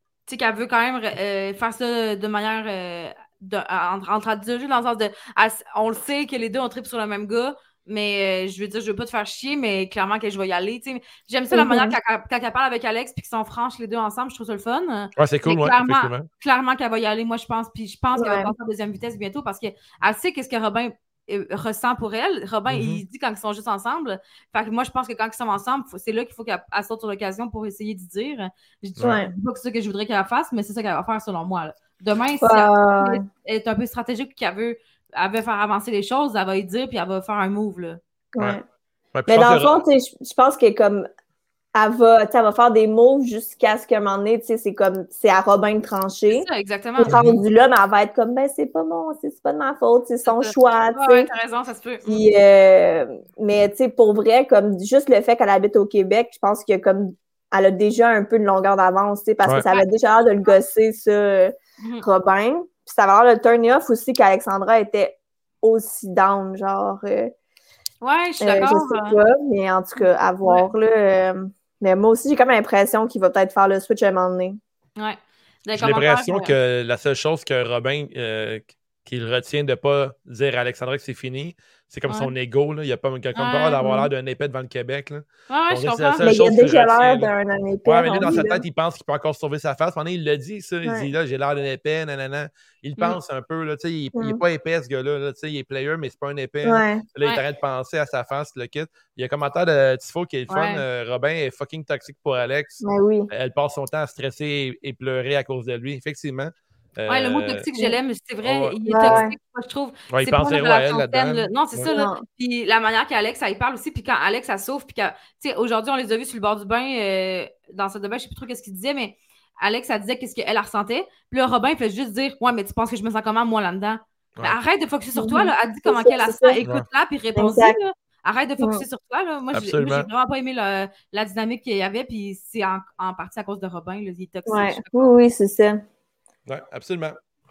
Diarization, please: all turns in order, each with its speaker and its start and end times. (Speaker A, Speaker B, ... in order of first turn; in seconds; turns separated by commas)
Speaker A: 0.3-38.0, Speaker B: 11.5-11.9, Speaker C: 15.2-16.3, Speaker B: 18.2-18.5, Speaker C: 22.7-23.0, Speaker C: 29.0-29.2, Speaker B: 29.0-29.3, Speaker B: 32.4-33.2, Speaker B: 38.4-38.6, Speaker C: 39.1-39.8, Speaker B: 39.3-41.1, Speaker B: 41.8-46.5, Speaker A: 46.3-47.2, Speaker B: 47.0-51.3, Speaker C: 47.1-47.4, Speaker A: 50.3-52.2, Speaker B: 52.1-67.3, Speaker A: 68.0-69.2, Speaker B: 68.4-74.6, Speaker A: 70.0-70.7, Speaker A: 75.0-76.5, Speaker C: 75.7-87.3, Speaker A: 83.3-83.8, Speaker B: 83.8-84.1, Speaker A: 85.5-86.2, Speaker B: 86.2-88.6, Speaker C: 87.9-107.7, Speaker A: 88.1-88.5, Speaker B: 94.2-94.4, Speaker B: 96.6-97.0, Speaker A: 100.5-100.8, Speaker B: 102.8-103.3, Speaker A: 107.1-135.1, Speaker C: 108.4-109.2, Speaker B: 108.9-109.3, Speaker C: 110.1-111.9, Speaker B: 111.9-112.2, Speaker B: 125.2-126.6, Speaker B: 127.4-127.8, Speaker C: 129.5-130.1, Speaker B: 134.5-135.8, Speaker C: 136.5-137.2